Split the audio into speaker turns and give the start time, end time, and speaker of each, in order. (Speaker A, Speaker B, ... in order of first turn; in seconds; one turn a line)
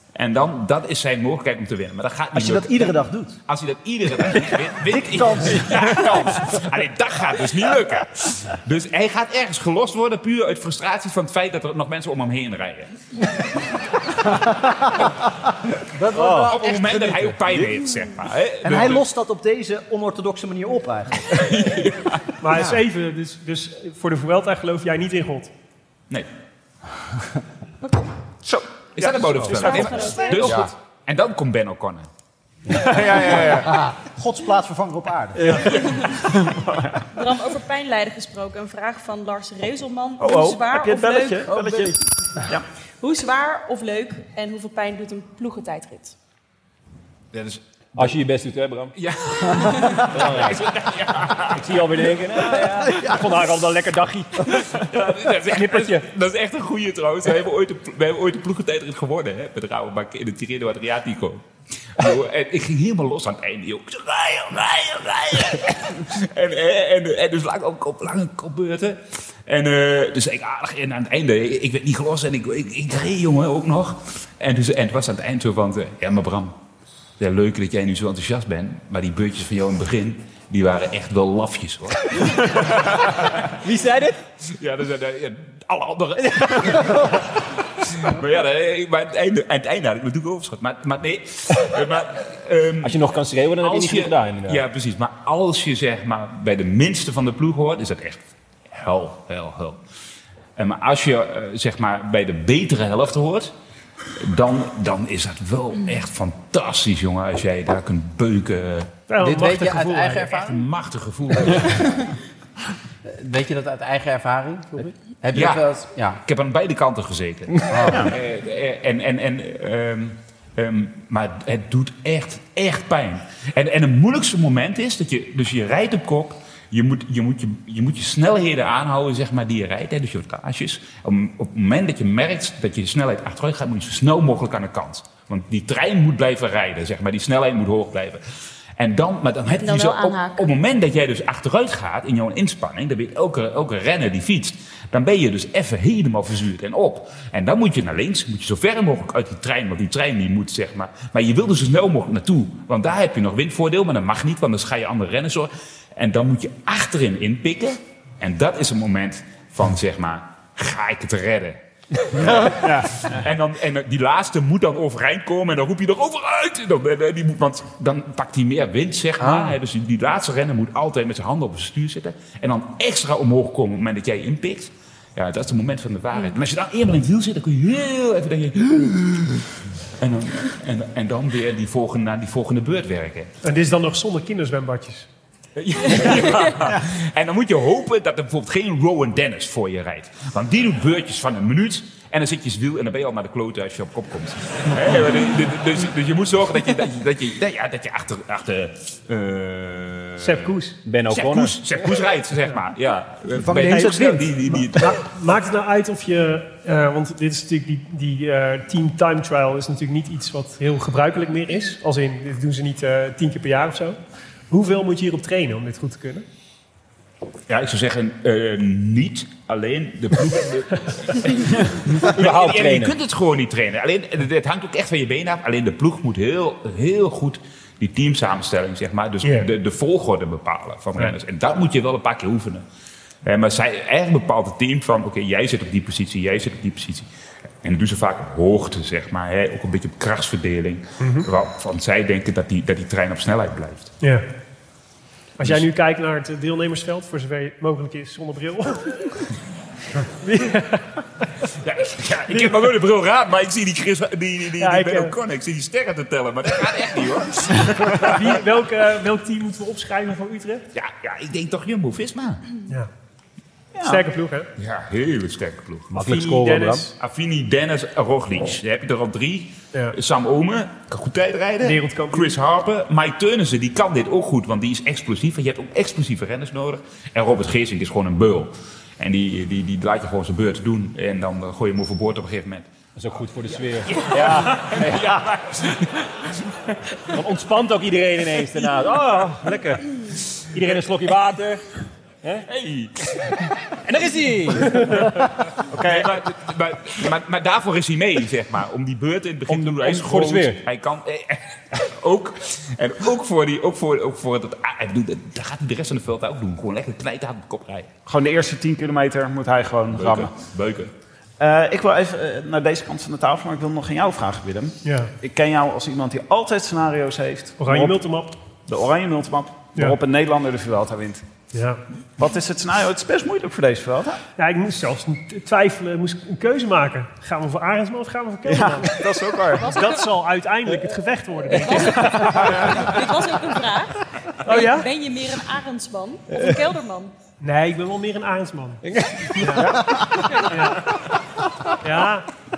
Speaker A: 0.1-3.0
Speaker B: 2.3-3.4
Speaker A: 3.5-12.9
Speaker B: 4.9-6.3
Speaker C: 16.0-17.2
Speaker D: 16.1-16.5
Speaker A: 16.2-19.0
Speaker B: 18.6-21.4
Speaker A: 21.3-22.2
Speaker E: 22.4-25.5
Speaker F: 28.4-30.5
Speaker A: 28.9-32.1
Speaker G: 29.5-30.6
Speaker F: 32.7-33.8
Speaker B: 34.0-35.7
Speaker D: 35.4-35.8
Speaker F: 36.1-37.0
Speaker G: 37.1-41.5
Speaker F: 40.2-42.6
Speaker G: 43.0-46.1
Speaker A: 47.3-48.2
Speaker D: 48.0-48.9
Speaker A: 49.0-52.7
Speaker D: 50.0-50.6
Speaker D: 51.5-54.5
Speaker A: 54.5-61.5
Speaker A: 62.0-76.5
Speaker A: 77.2-83.4
Speaker D: 83.6-84.2
Speaker A: 84.5-93.0
Speaker D: 86.2-87.0
Speaker D: 92.8-94.6
Speaker A: 93.6-98.2
Speaker A: 98.7-99.8
Speaker A: 100.6-103.5
Speaker A: 104.2-108.9
Speaker E: 109.1-110.4
Speaker C: 109.2-110.6
Speaker A: 110.3-112.0
Speaker C: 113.0-116.2
Speaker A: 115.3-115.7
Speaker A: 116.2-138.2
Speaker C: 117.7-118.0
Speaker A: 138.8-161.6
Speaker G: 139.5-140.5
Speaker A: 162.1-183.3
Speaker F: 162.6-163.1
Speaker E: 183.4-185.1
Speaker A: 185.6-200.5
Speaker E: 200.2-200.8
Speaker D: 200.8-201.6
Speaker A: 201.1-204.9
Speaker B: 203.3-204.6
Speaker E: 203.7-214.0
Speaker E: 214.5-216.2
Speaker A: 217.5-232.6
Speaker D: 222.0-222.9
Speaker E: 229.2-229.5
Speaker A: 233.2-237.1
Speaker A: 237.6-243.9
Speaker E: 241.0-241.3
Speaker E: 245.4-249.2
Speaker E: 250.2-251.0
Speaker A: 251.6-258.4
Speaker E: 254.6-255.1
Speaker E: 257.9-260.6
Speaker A: 260.7-262.4
Speaker F: 263.7-264.0
Speaker E: 263.8-264.5
Speaker A: 264.6-266.1
Speaker D: 265.9-266.9
Speaker E: 265.9-266.9
Speaker A: 267.0-282.7
Speaker E: 271.6-272.3
Speaker D: 283.0-285.2
Speaker A: 283.9-286.3
Speaker D: 287.1-289.9
Speaker D: 290.5-291.6
Speaker A: 292.5-293.5
Speaker D: 293.9-295.2
Speaker F: 295.7-296.1
Speaker A: 295.7-307.9
Speaker D: 299.5-300.6
Speaker F: 308.1-310.3
Speaker A: 309.9-310.9
Speaker F: 311.4-318.0
Speaker E: 314.8-315.1
Speaker E: 317.6-318.4
Speaker F: 318.7-321.2
Speaker E: 321.5-321.8
Speaker F: 322.2-324.2
Speaker E: 324.4-328.9
Speaker F: 328.4-329.7
Speaker G: 329.6-330.1
Speaker E: 329.6-332.6
Speaker G: 331.6-337.1
Speaker F: 331.9-332.9
Speaker E: 334.4-334.9
Speaker D: 336.3-336.6
Speaker E: 337.4-338.8
Speaker D: 338.9-339.8
Speaker E: 339.3-339.9
Speaker G: 340.1-340.6
Speaker E: 340.4-340.9
Speaker E: 341.8-342.3